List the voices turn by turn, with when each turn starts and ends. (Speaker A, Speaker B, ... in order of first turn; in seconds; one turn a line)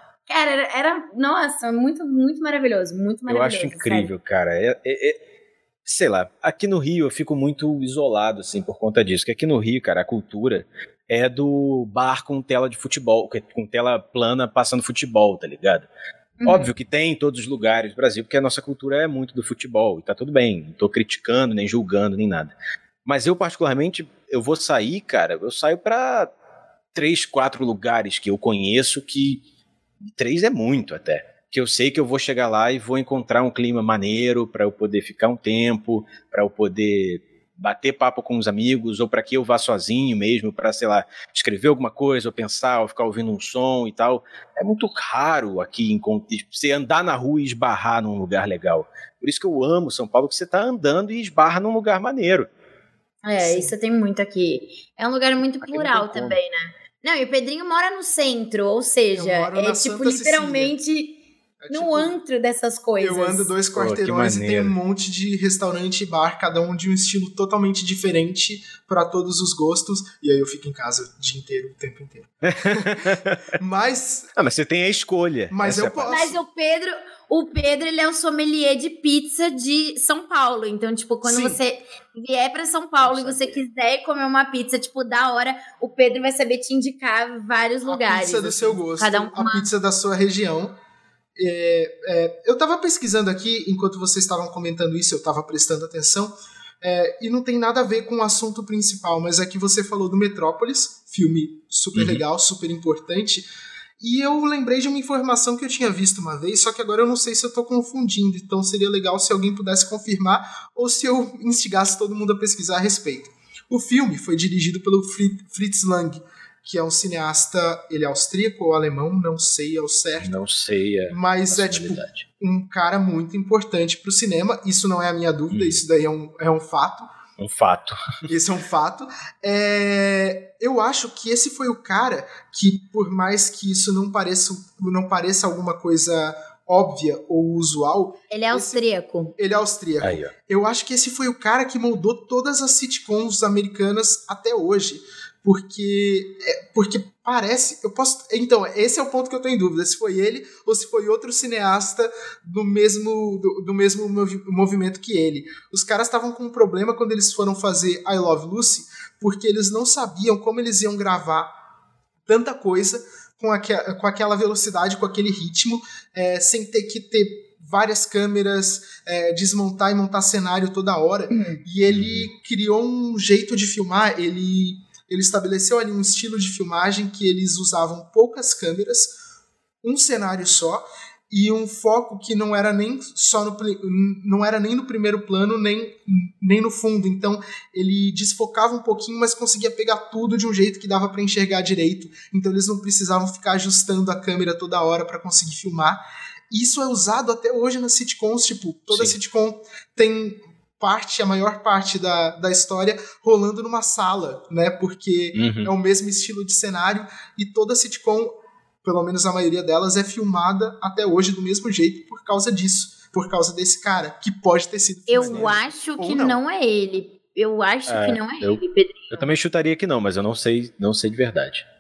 Speaker A: 0.3-4.1
Speaker B: 3.3-5.2
Speaker B: 5.9-15.9
Speaker A: 16.4-16.7
Speaker B: 16.4-22.5
Speaker B: 23.1-26.3
Speaker B: 26.9-29.4
Speaker B: 30.1-52.5
Speaker A: 53.2-61.2
Speaker C: 53.4-53.7
Speaker B: 55.6-56.4
Speaker C: 59.1-60.8
Speaker C: 61.6-62.1
Speaker A: 61.7-63.5
Speaker C: 63.0-74.3
Speaker B: 63.8-64.8
Speaker B: 72.4-73.4
Speaker B: 74.4-76.3
Speaker C: 75.5-76.4
Speaker A: 76.1-89.7
Speaker C: 81.2-81.6
Speaker B: 83.0-83.6
Speaker C: 87.8-90.8
Speaker C: 91.4-103.5
Speaker B: 101.9-102.2
Speaker C: 104.0-120.4
Speaker B: 120.2-122.2
Speaker C: 121.1-127.1
Speaker B: 125.5-125.8
Speaker B: 127.4-128.2
Speaker C: 128.3-138.8
Speaker A: 138.3-139.3
Speaker C: 139.4-161.5
Speaker B: 140.0-140.3
Speaker C: 162.3-179.2
Speaker A: 171.3-171.6
Speaker B: 171.9-172.3
Speaker C: 179.8-216.4
Speaker B: 198.9-199.2
Speaker B: 205.3-205.7
Speaker A: 215.1-219.3
Speaker B: 215.2-215.6
Speaker B: 217.9-221.7